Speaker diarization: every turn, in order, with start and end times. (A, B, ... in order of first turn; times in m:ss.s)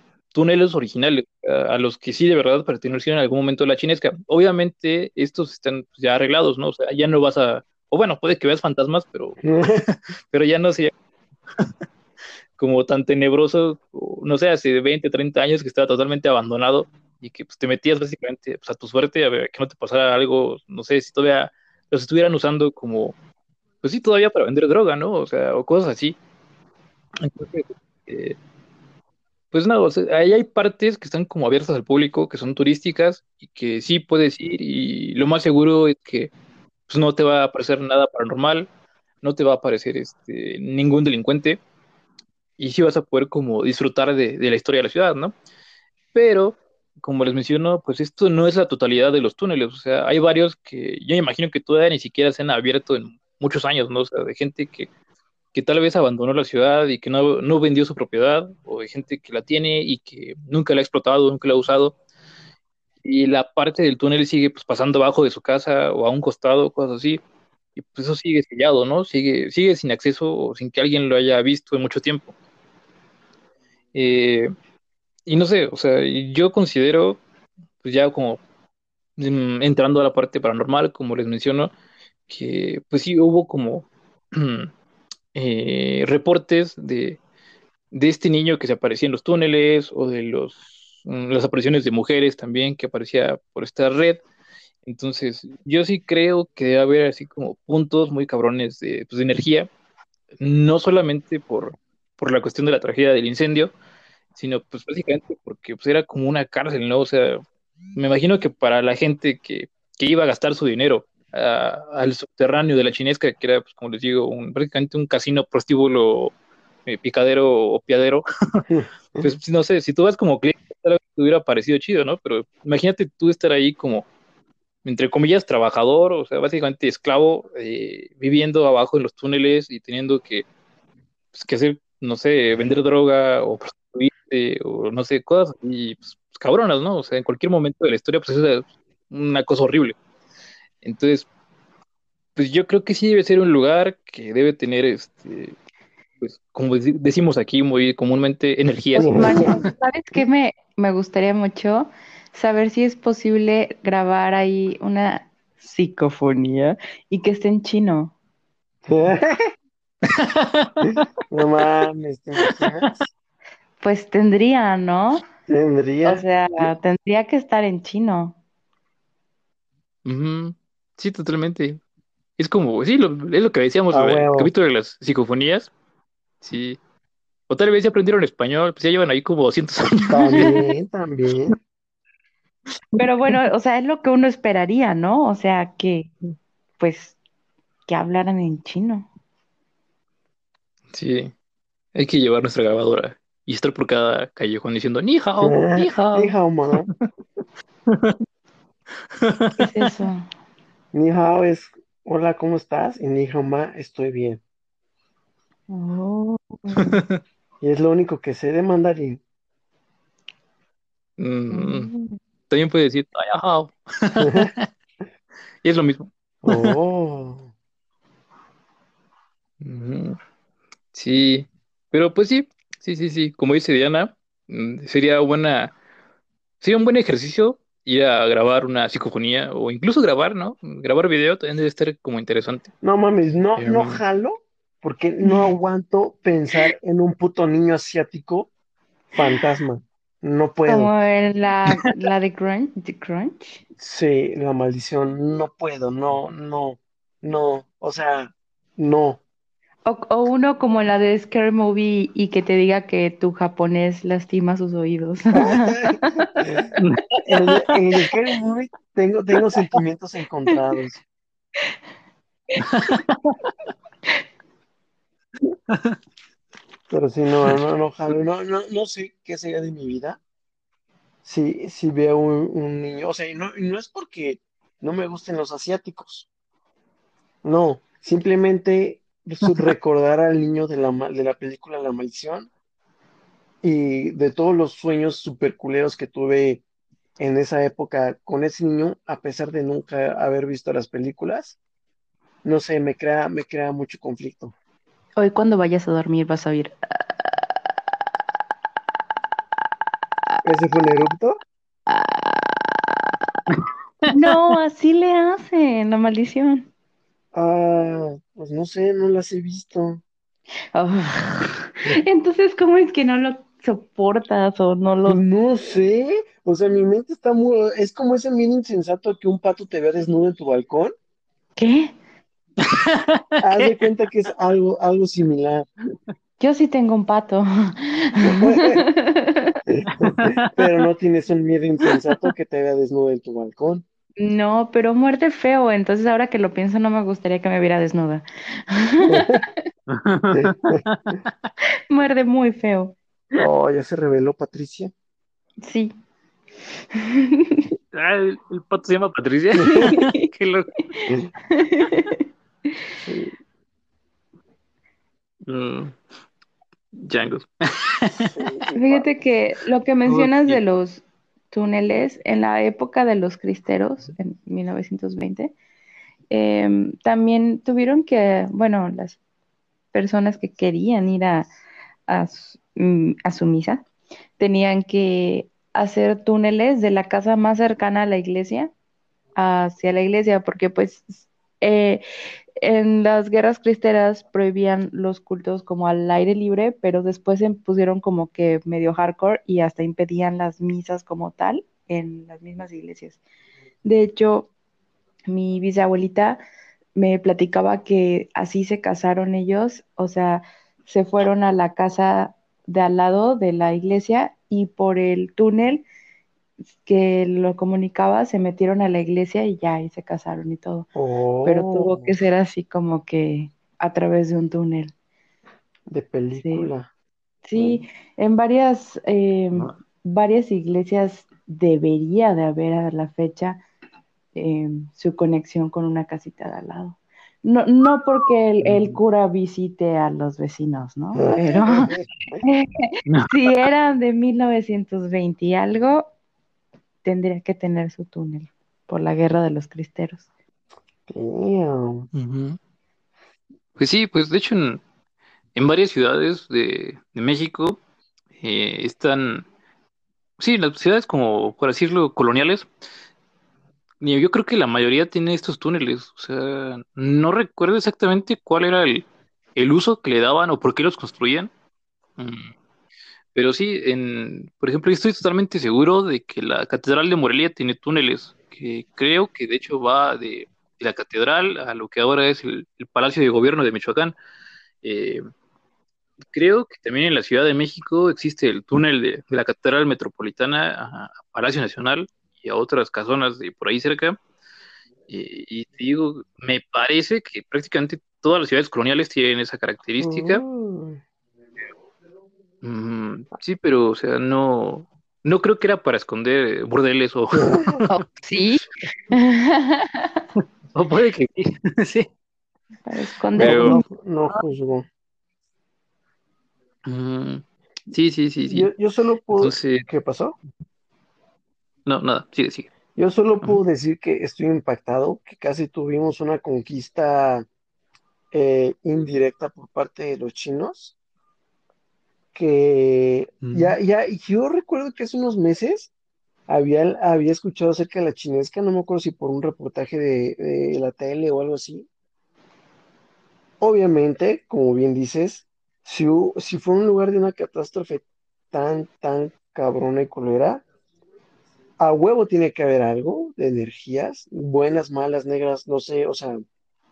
0:00.3-0:10.9 A
0:09.4-0:09.9 B
0:12.6-0:23.2 A
0:23.8-0:26.2 A
0:27.2-0:28.4 A
0:29.5-0:36.3 A
0:36.9-0:38.7 A
0:39.2-0:41.6 A
0:42.6-0:45.4 A
0:46.1-0:54.9 A
0:55.5-1:02.0 A
1:03.0-1:07.2 A
1:07.8-1:12.4 A
1:13.9-1:14.5 A
1:15.3-1:17.2 A
1:17.8-1:18.4 A
1:19.2-1:21.7 A
1:22.3-1:24.7 A
1:25.3-1:27.2 A
1:27.9-1:34.2 A
1:34.8-1:39.7 A
1:40.4-1:43.7 A
1:44.4-1:47.4 A
1:48.0-1:56.4 A
1:56.9-1:58.6 A
1:58.7-1:59.3 B
1:59.2-2:04.1 A
2:04.8-2:10.5 A
2:11.3-2:20.0 A
2:20.8-2:21.3 A
2:22.4-2:25.6 A
2:26.2-2:29.6 A
2:29.0-2:38.1 C
2:29.0-2:29.4 B
2:38.9-2:39.5 B
2:40.1-2:41.1 A
2:41.3-2:43.0 B
2:42.5-2:42.9 A
2:43.8-2:45.2 C
2:45.5-2:46.7 B
2:46.0-2:48.4 C
2:50.0-2:51.8 A
2:52.4-2:55.7 A
2:53.9-2:54.5 B
2:56.4-2:56.8 A
2:57.5-3:00.4 A
3:00.1-3:00.6 C
3:00.1-3:01.6 B
3:03.0-3:06.1 C
3:03.0-3:03.4 A
3:06.8-3:07.2 C
3:07.9-3:09.1 C
3:10.9-3:11.3 A
3:11.9-3:16.4 A
3:15.4-3:16.9 B
3:17.9-3:18.2 A
3:19.1-3:19.9 A
3:19.6-3:20.3 C
3:20.9-3:24.4 B
3:25.7-3:26.9 C
3:26.8-3:27.2 A
3:27.6-3:29.2 B
3:31.2-3:31.9 A
3:31.5-3:32.2 C
3:32.5-3:34.7 A
3:34.2-3:34.5 B
3:35.6-3:36.8 A
3:36.4-3:37.5 B
3:39.6-3:40.2 A
3:40.9-3:45.8 A
3:46.6-3:52.7 A
3:52.8-3:58.5 B
3:53.6-3:54.0 A
3:59.1-4:00.9 B
4:00.7-4:03.6 C
4:03.8-4:09.2 B
4:09.8-4:17.2 C
4:15.3-4:16.7 B
4:17.2-4:21.0 B
4:22.6-4:23.2 A
4:25.7-4:26.0 A
4:26.9-4:30.2 B
4:31.2-4:36.3 B
4:37.4-4:42.5 B
4:43.6-4:46.6 B
4:47.2-4:51.6 B
4:52.4-4:54.5 B
4:55.2-4:57.4 C
5:00.4-5:01.4 B
5:01.9-5:02.7 C
5:03.5-5:04.3 A
5:04.1-5:06.7 C
5:07.4-5:10.0 B
5:10.7-5:15.2 C
5:15.1-5:20.9 B
5:21.6-5:21.9 C
5:22.6-5:23.7 A
5:23.4-5:25.7 B
5:26.4-5:29.6 C
5:28.2-5:28.8 B
5:29.7-5:33.8 B
5:30.2-5:30.5 A
5:34.2-5:39.5 C
5:39.1-5:39.4 B
5:39.9-5:41.5 A
5:40.3-5:40.8 B
5:41.9-5:43.0 C
5:43.4-5:44.9 B
5:45.6-5:45.9 C
5:46.9-5:47.7 C
5:47.9-5:50.7 A
5:49.7-5:50.3 C
5:51.0-5:52.2 C
5:53.0-5:53.4 B
5:55.4-5:56.0 A
5:56.9-5:58.5 A
5:58.1-5:59.1 B
5:58.8-6:05.5 C
6:00.0-6:00.6 A
6:06.3-6:09.2 C
6:09.9-6:11.5 C
6:12.1-6:13.9 C
6:14.4-6:18.7 C
6:19.4-6:22.0 C
6:22.6-6:33.2 C
6:33.8-6:34.5 C
6:35.3-6:36.4 C
6:37.0-6:45.8 C
6:46.8-6:50.9 C
6:51.0-6:52.2 B
6:51.4-6:54.9 C
6:55.9-6:56.9 B
6:56.4-6:56.7 C
6:57.4-7:03.6 C
6:57.6-6:57.8 B
7:04.4-7:16.1 C
7:08.6-7:09.0 A
7:11.2-7:12.4 B
7:13.1-7:13.4 A
7:17.0-7:20.3 C
7:21.1-7:22.1 B
7:22.1-7:22.6 A
7:23.8-7:24.8 A
7:25.6-7:27.8 A
7:28.4-7:29.5 A
7:30.4-7:32.7 A
7:34.0-7:41.5 A
7:42.2-7:42.5 A
7:43.4-7:54.2 A
7:54.8-7:55.2 A
7:56.3-8:04.2 A
8:05.1-8:10.4 A
8:10.0-8:11.0 B
8:12.6-8:17.9 A
8:17.3-8:17.8 B
8:17.9-8:20.2 C
8:20.7-8:22.1 A
8:22.9-8:23.8 C
8:23.4-8:24.9 B
8:23.4-8:23.8 A
8:26.9-8:28.7 A
8:28.5-8:30.4 B
8:29.4-8:29.9 A
8:31.9-8:32.7 A
8:33.0-8:37.5 B
8:38.3-8:41.0 B
8:42.3-8:45.9 B
8:43.4-8:43.8 A
8:46.5-8:51.9 B
8:53.6-9:00.6 B
9:01.8-9:06.4 B